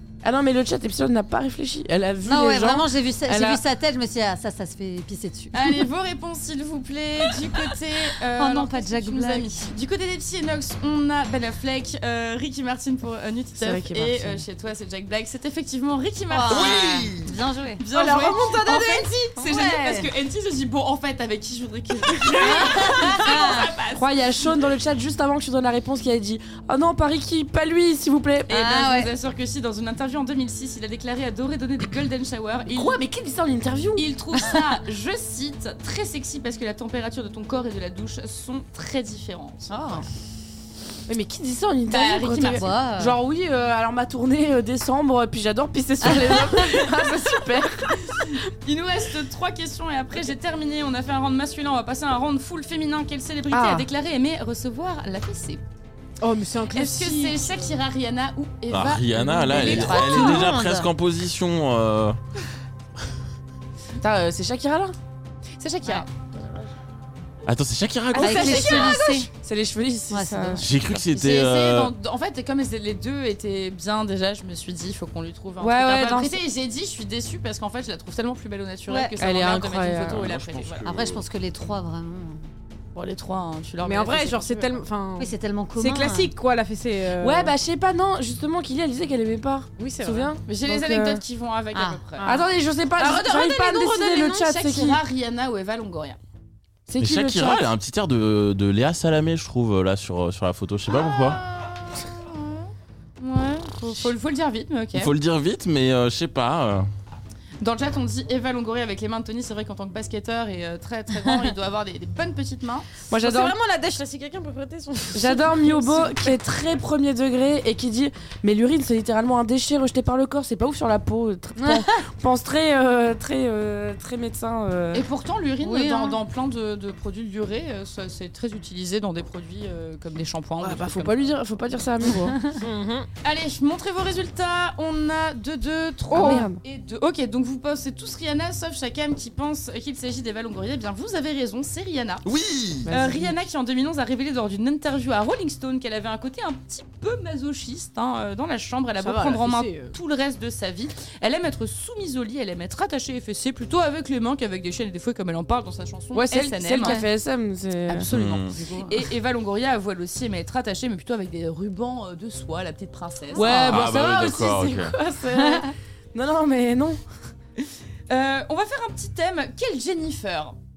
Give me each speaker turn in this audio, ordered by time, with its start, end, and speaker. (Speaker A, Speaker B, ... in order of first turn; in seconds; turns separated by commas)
Speaker A: 0.2-3.6, Speaker B: 2.2-5.9, Speaker C: 5.5-17.1, Speaker B: 8.3-9.7, Speaker A: 13.6-14.4, Speaker B: 16.3-17.8, Speaker D: 16.5-17.3, Speaker C: 17.8-24.1, Speaker E: 17.9-19.4, Speaker B: 19.4-20.1, Speaker B: 22.4-23.7, Speaker A: 23.9-28.6, Speaker C: 28.5-33.0, Speaker B: 28.5-29.1, Speaker A: 32.7-34.1, Speaker C: 34.0-40.0, Speaker B: 39.7-40.0, Speaker A: 41.1-48.3, Speaker C: 41.9-42.7, Speaker B: 42.4-43.2, Speaker B: 46.1-46.5, Speaker C: 48.1-55.6, Speaker A: 53.5-53.9, Speaker E: 56.2-57.8, Speaker C: 56.7-60.5, Speaker D: 58.7-62.2, Speaker B: 59.5-60.9, Speaker A: 64.0-64.9, Speaker C: 65.6-66.1, Speaker D: 67.5-68.9, Speaker A: 68.2-70.7, Speaker E: 68.2-69.2, Speaker B: 68.2-69.3, Speaker B: 70.1-70.7, Speaker D: 70.6-71.9, Speaker C: 71.1-80.9, Speaker A: 75.6-76.3, Speaker B: 78.9-79.2, Speaker A: 79.2-80.3, Speaker D: 80.2-81.2, Speaker B: 80.8-82.5, Speaker C: 82.9-84.8, Speaker E: 83.8-87.5, Speaker B: 85.2-86.3, Speaker A: 87.2-91.2, Speaker E: 89.8-90.4, Speaker C: 90.5-92.3, Speaker B: 91.7-92.0, Speaker E: 92.2-94.5, Speaker A: 92.2-95.0, Speaker C: 94.3-96.2, Speaker A: 96.9-97.7, Speaker D: 97.0-101.4, Speaker C: 101.1-105.1, Speaker D: 104.9-106.9, Speaker C: 107.6-113.1, Speaker A: 113.1-113.5, Speaker E: 113.2-116.3, Speaker A: 115.1-125.1, Speaker B: 121.6-122.0, Speaker C: 124.9-131.4, Speaker B: 125.6-126.2, Speaker A: 130.6-132.4, Speaker E: 132.6-133.1, Speaker C: 133.2-142.3, Speaker E: 136.1-136.5, Speaker A: 136.1-136.6, Speaker D: 142.2-142.9, Speaker A: 142.9-143.4, Speaker C: 142.9-157.1, Speaker E: 149.0-150.0, Speaker A: 156.1-158.1, Speaker C: 157.9-163.8, Speaker D: 158.1-158.6, Speaker B: 163.3-163.7, Speaker A: 163.3-167.0, Speaker D: 163.7-164.9, Speaker C: 168.1-170.6